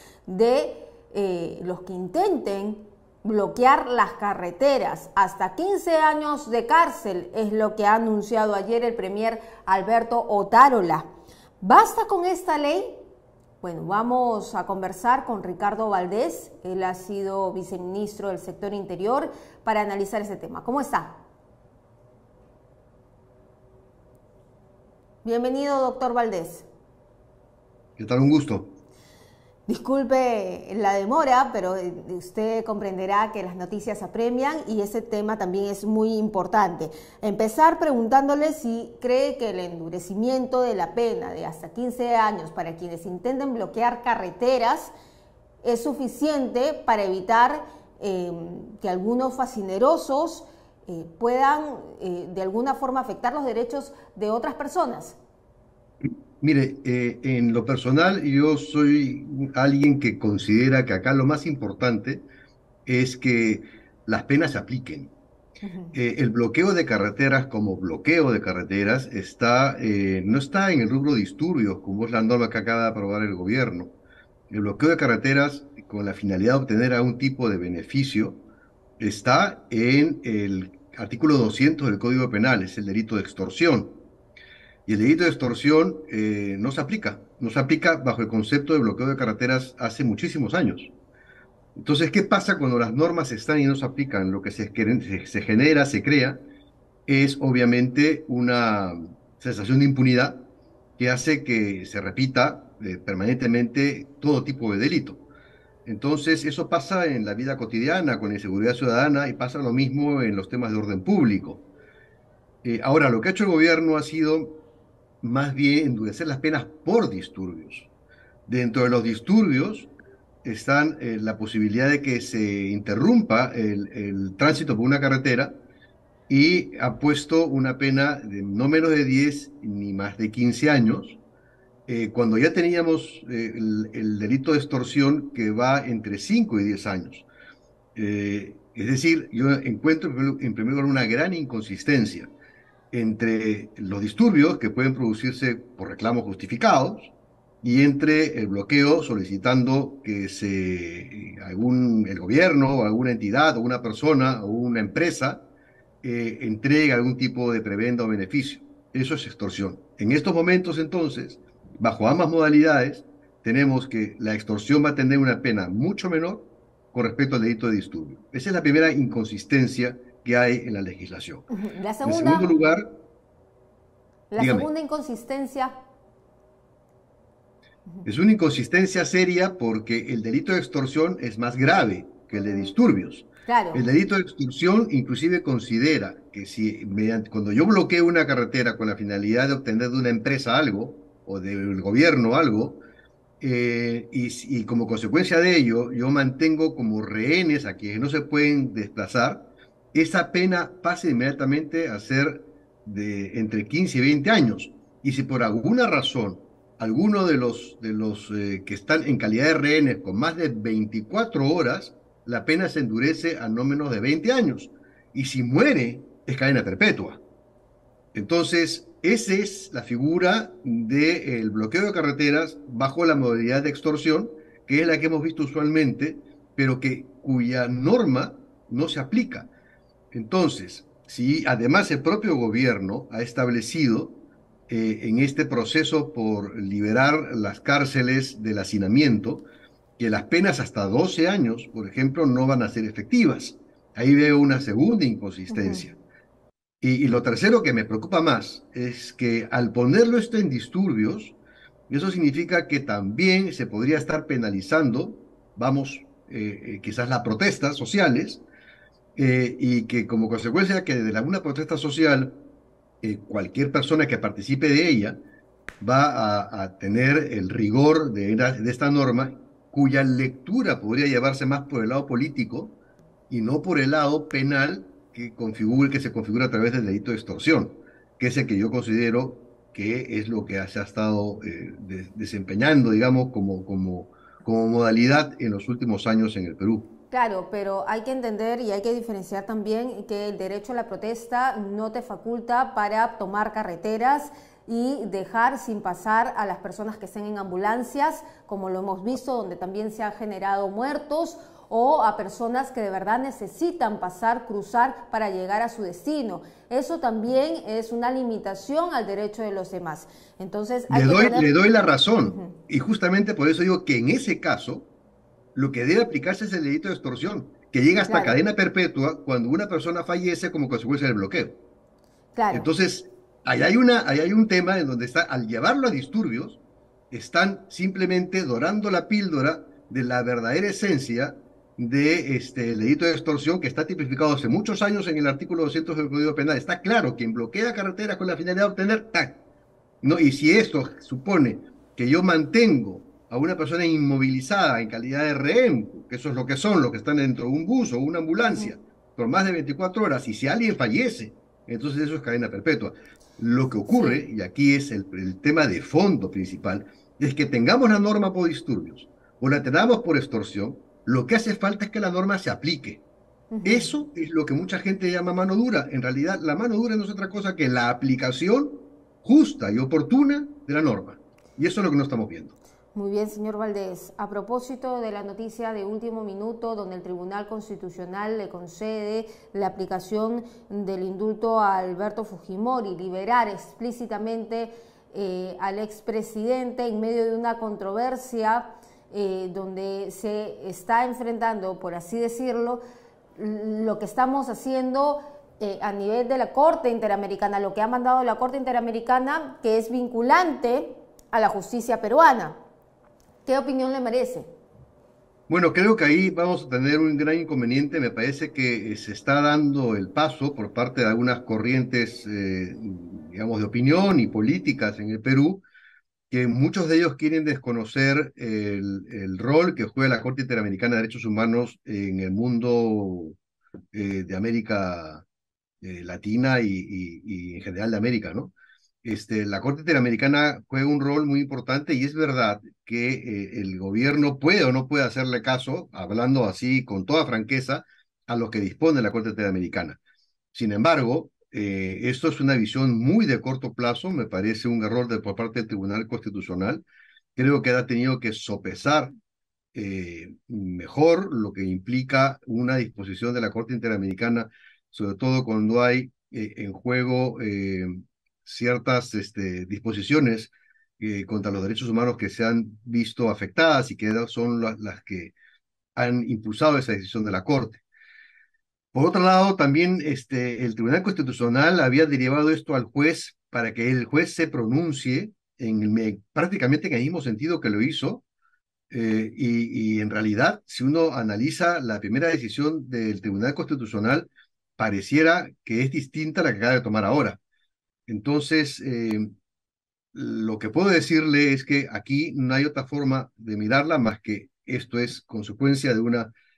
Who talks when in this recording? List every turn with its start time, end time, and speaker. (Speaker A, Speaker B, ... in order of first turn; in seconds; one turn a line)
Speaker A: 0.3-11.1
Speaker A: 11.6-13.0
Speaker A: 13.6-21.2
Speaker A: 25.2-26.7
Speaker B: 28.0-28.7
Speaker A: 29.7-44.9
Speaker A: 45.6-55.2
Speaker B: 56.4-62.2
Speaker B: 62.9-65.1
Speaker A: 65.6-65.9
Speaker B: 65.9-73.9
Speaker B: 74.5-78.4
Speaker B: 79.0-83.9
Speaker B: 84.8-90.9
Speaker B: 91.8-96.4
Speaker B: 97.1-100.4
Speaker B: 101.0-105.2
Speaker B: 105.8-111.6
Speaker B: 112.6-114.5
Speaker B: 115.2-117.9
Speaker B: 118.5-119.9
Speaker B: 120.4-125.5
Speaker B: 126.3-131.2
Speaker B: 131.9-137.3
Speaker B: 137.9-142.3
Speaker B: 142.9-147.1
Speaker B: 147.6-155.4
Speaker B: 156.0-171.5
Speaker A: 171.5-172.5
Speaker B: 172.0-172.9
Speaker A: 174.3-175.7
Speaker B: 174.4-174.7
Speaker B: 178.0-192.8
Speaker A: 183.5-183.8
Speaker B: 193.4-217.2
Speaker B: 218.1-229.5
Speaker B: 230.1-234.1
Speaker B: 234.7-239.4
Speaker B: 240.0-245.9
Speaker A: 245.5-245.9
Speaker B: 246.8-251.3
Speaker B: 251.9-258.4
Speaker B: 259.1-262.3
Speaker B: 263.0-265.2
Speaker B: 265.8-272.7
Speaker B: 273.3-286.8
Speaker A: 287.1-311.6
Speaker B: 310.9-314.9
Speaker A: 312.2-312.5
Speaker B: 315.5-321.6
Speaker A: 318.1-318.4
Speaker A: 322.4-322.7
Speaker B: 322.5-326.6
Speaker B: 327.1-339.4
Speaker B: 340.0-363.0
Speaker A: 353.9-354.2
Speaker A: 363.5-363.9
Speaker B: 363.6-372.5
Speaker A: 372.9-392.8
Speaker A: 393.4-402.6
Speaker A: 403.4-404.5
Speaker B: 405.5-415.6
Speaker B: 416.3-423.4
Speaker B: 423.9-425.2
Speaker B: 425.8-440.0
Speaker B: 440.5-446.8
Speaker B: 447.4-449.1
Speaker B: 449.7-465.3
Speaker B: 465.9-467.8
Speaker B: 468.9-478.2
Speaker B: 478.9-487.4
Speaker B: 488.1-489.3
Speaker B: 490.1-496.3